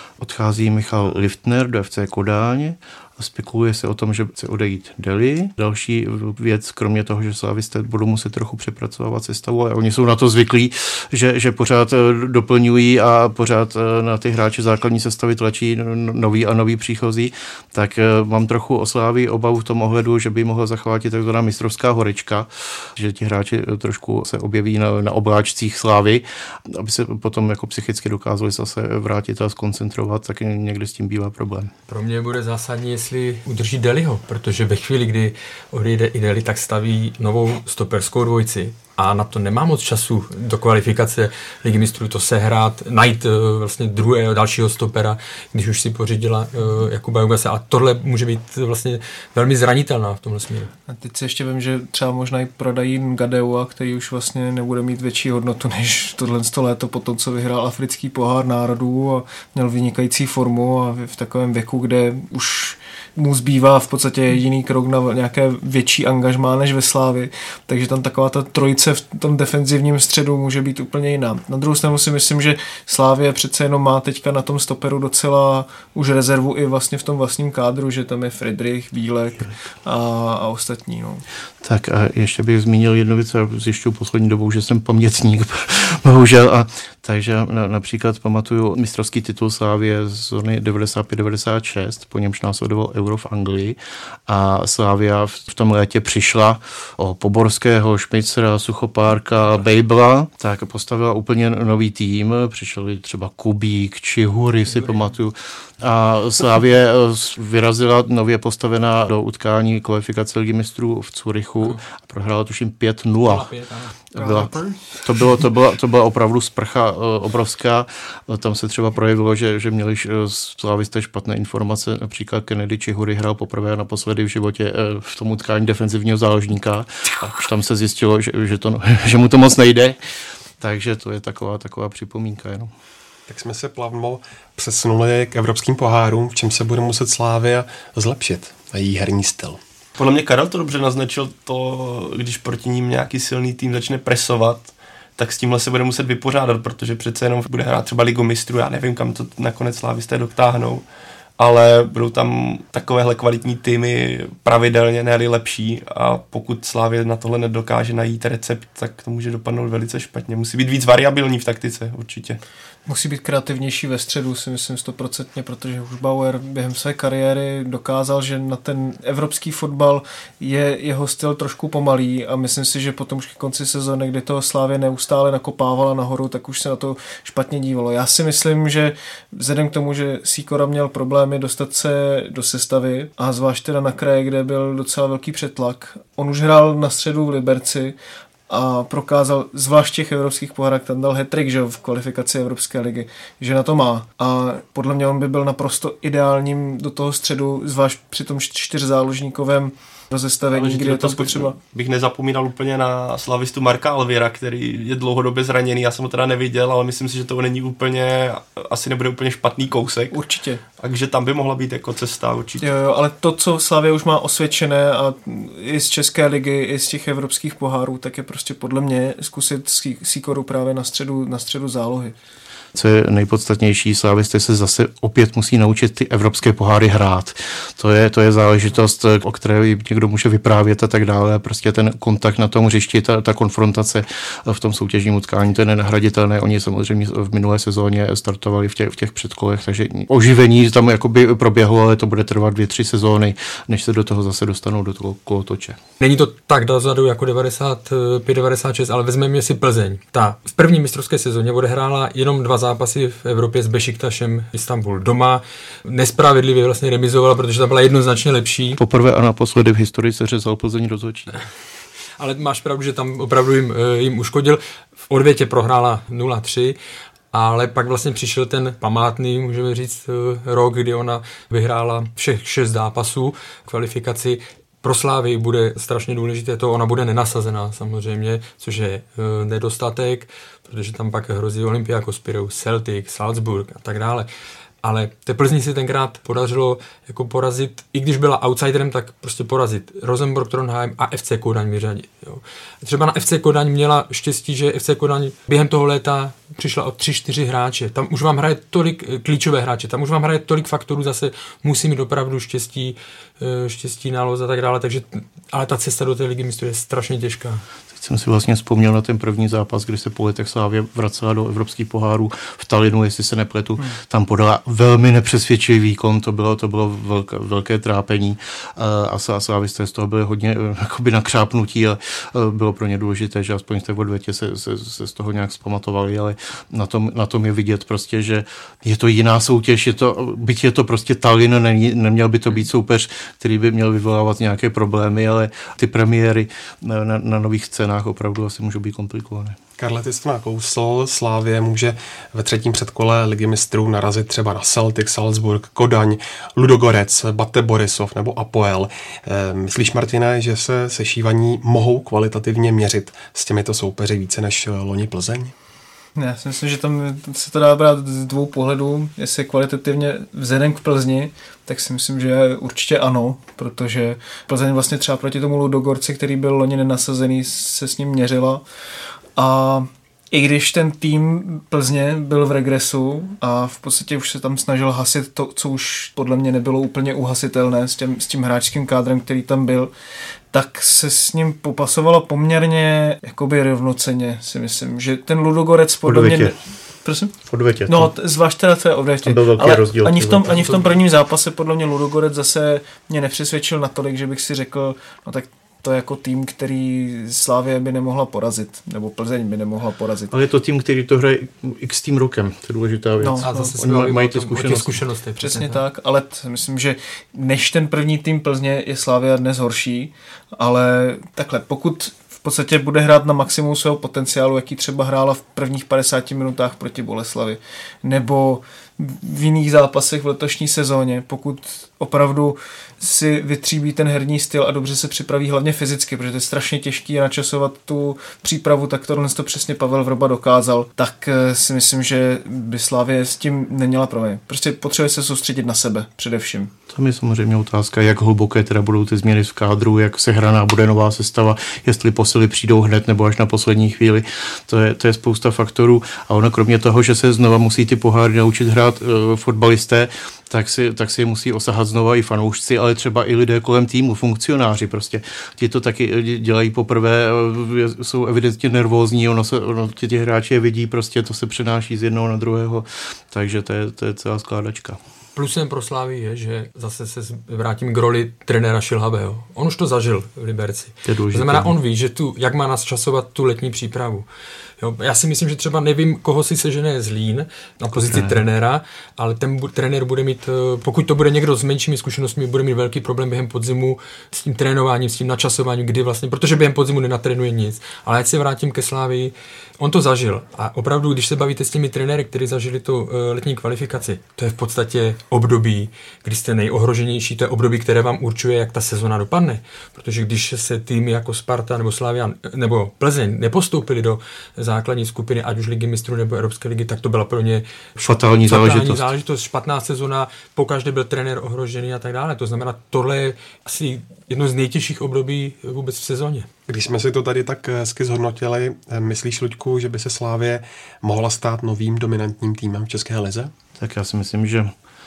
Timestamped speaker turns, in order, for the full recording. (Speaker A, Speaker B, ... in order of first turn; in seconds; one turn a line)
Speaker A: 0.2-31.7
Speaker B: 31.9-50.7
Speaker C: 50.9-81.2
Speaker A: 81.6-113.5
Speaker B: 104.7-105.1
Speaker B: 113.2-114.8
Speaker A: 114.1-130.0
Speaker C: 114.2-114.5
Speaker A: 130.6-132.7
Speaker D: 133.3-139.6
Speaker E: 140.0-150.8
Speaker E: 151.4-162.4
Speaker C: 162.8-187.9
Speaker C: 188.5-201.6
Speaker A: 200.5-201.5
Speaker E: 200.6-210.2
Speaker C: 210.1-210.6
Speaker E: 210.8-212.7
Speaker C: 212.6-222.1
Speaker A: 222.7-245.8
Speaker B: 246.0-258.8
Speaker A: 258.8-261.4
Speaker B: 262.2-266.8
Speaker B: 267.3-284.3
Speaker B: 284.8-307.6
Speaker A: 307.9-339.6
Speaker D: 339.8-355.5
Speaker C: 356.1-368.6
Speaker C: 369.4-379.9
Speaker C: 380.5-387.3
Speaker A: 386.0-386.5
Speaker A: 387.4-388.1
Speaker C: 387.9-400.4
Speaker A: 389.2-391.0
Speaker A: 400.3-405.0
Speaker C: 403.2-403.7
Speaker B: 403.4-405.8
Speaker C: 405.4-436.7
Speaker A: 436.9-465.0
Speaker B: 465.3-474.2
Speaker A: 471.0-471.8
Speaker B: 474.8-516.5
Speaker A: 477.9-478.4
Speaker A: 508.0-509.1
Speaker D: 516.7-523.5
Speaker A: 523.8-524.7